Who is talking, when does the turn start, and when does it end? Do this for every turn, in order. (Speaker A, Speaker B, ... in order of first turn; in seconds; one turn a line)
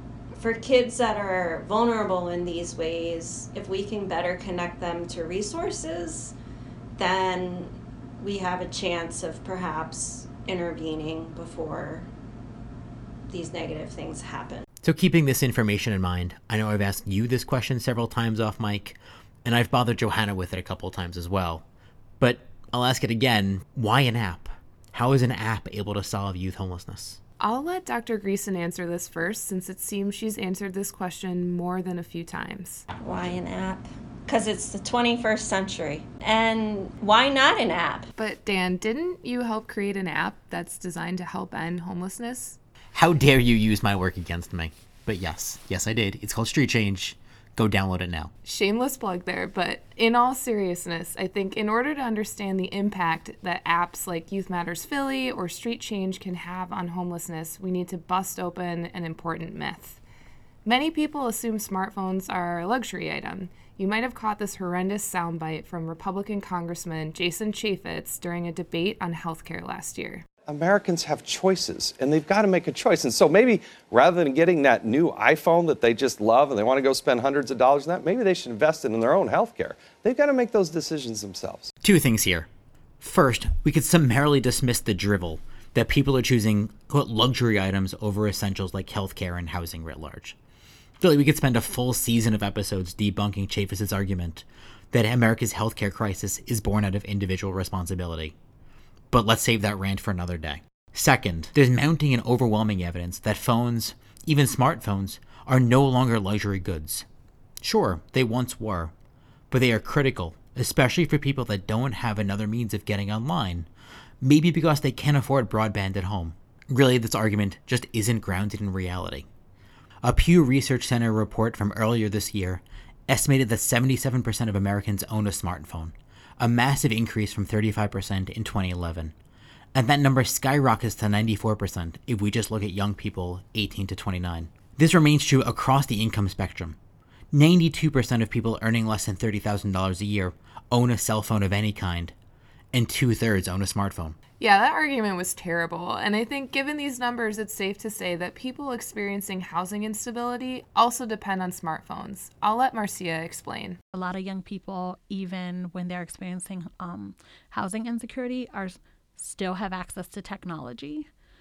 Speaker A: 0.3-6.3
Speaker A: 7.0-12.1
Speaker A: 13.3-14.7
Speaker B: 14.8-21.6
Speaker B: 22.2-27.2
Speaker C: 27.4-32.9
Speaker A: 33.0-38.1
Speaker C: 38.2-42.6
Speaker B: 42.9-48.3
Speaker C: 48.4-60.0
Speaker C: 60.6-70.2
Speaker D: 70.5-81.7
Speaker B: 81.8-82.5
Speaker B: 83.0-90.3
Speaker B: 91.0-98.3
Speaker B: 99.1-107.0
Speaker B: 107.6-108.9
Speaker B: 109.5-113.7
Speaker B: 114.2-119.3
Speaker B: 120.0-129.1
Speaker B: 129.7-136.8
Speaker B: 137.3-142.1
Speaker B: 142.7-144.2
Speaker C: 144.4-153.8
Speaker E: 153.9-161.1